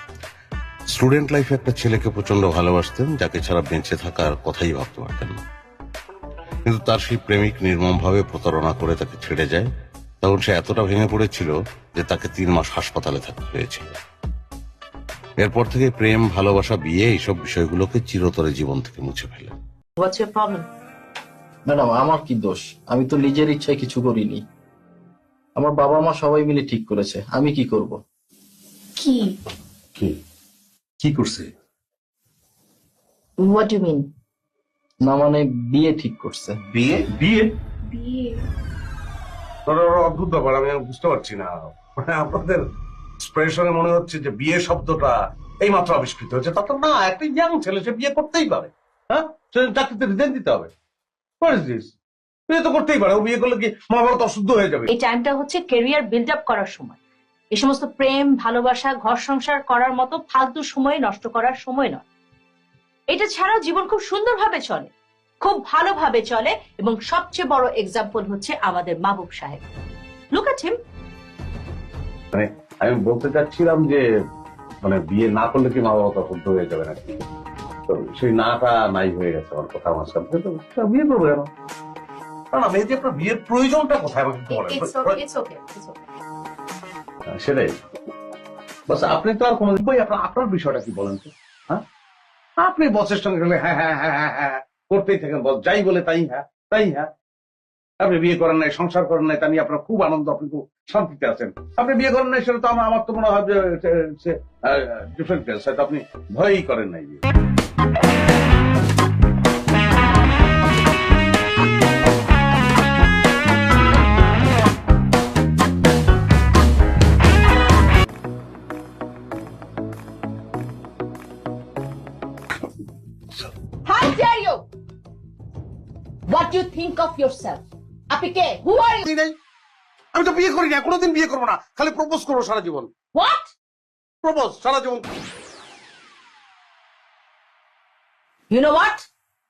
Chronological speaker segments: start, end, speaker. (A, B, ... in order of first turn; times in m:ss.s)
0:00.9-0:05.4 A
0:06.7-0:09.7 A
0:10.2-0:13.9 A
0:15.4-0:19.6 A
0:20.0-0:20.6 B
0:21.7-0:24.4 C
0:25.6-0:28.0 C
0:29.0-0:29.3 B
0:31.0-0:31.5 A
0:33.5-0:33.8 B
0:35.0-0:36.6 C
0:36.8-0:37.5 A
0:37.9-0:38.3 B
0:39.7-0:42.6 A
0:43.2-0:50.7 A
0:51.4-0:51.8 A
0:52.5-0:54.9 A
0:54.9-0:57.0 B
0:57.5-1:02.0 B
1:03.1-1:04.9 B
1:05.4-1:09.6 B
1:10.3-1:10.8 B
1:12.3-1:14.0 A
1:14.8-1:17.2 A
1:17.9-1:21.5 A
1:22.5-1:25.2 A
1:24.5-1:26.0 B
1:27.3-1:27.8 A
1:28.9-1:31.8 A
1:32.6-1:37.1 A
1:38.0-1:47.2 A
2:03.9-2:04.7 D
2:06.3-2:09.1 D
2:09.1-2:09.4 A
2:10.1-2:12.9 A
2:13.1-2:13.5 D
2:14.2-2:15.0 A
2:18.5-2:19.1 D